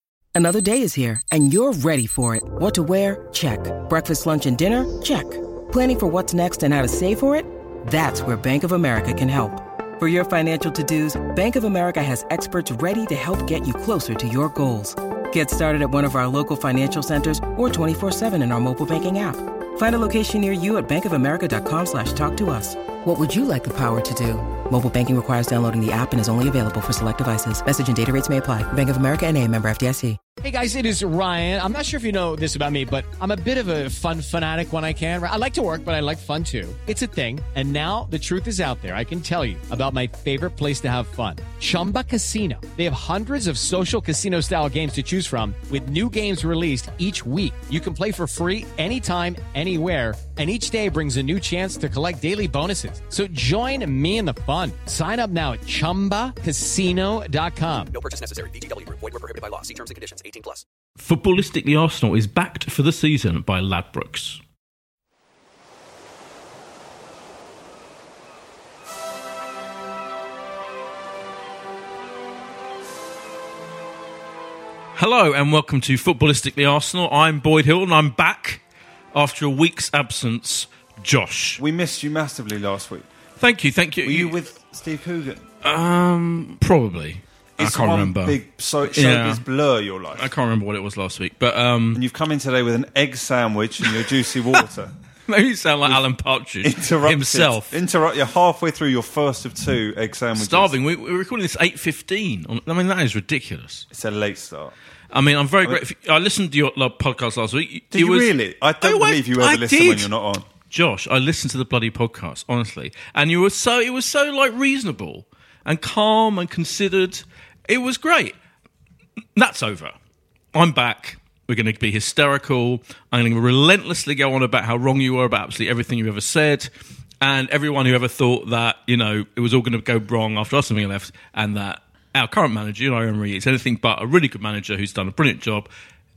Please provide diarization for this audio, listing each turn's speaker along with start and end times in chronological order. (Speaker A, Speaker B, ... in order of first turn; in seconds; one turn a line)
Speaker A: 0.3-30.2
Speaker B: 30.4-57.9
Speaker C: 57.9-60.6
Speaker D: 61.0-64.4
Speaker D: 74.9-78.6
Speaker D: 79.1-81.6
Speaker E: 81.6-83.1
Speaker D: 83.4-84.4
Speaker E: 84.0-85.4
Speaker D: 85.6-89.4
Speaker E: 87.6-90.3
Speaker D: 90.2-92.0
Speaker E: 91.9-94.9
Speaker D: 95.3-97.8
Speaker E: 96.6-100.7
Speaker D: 100.3-103.9
Speaker E: 103.9-104.7
Speaker D: 105.1-110.1
Speaker E: 107.9-110.5
Speaker D: 110.7-118.3
Speaker D: 119.3-119.9
Speaker D: 120.5-126.7
Speaker D: 127.2-135.7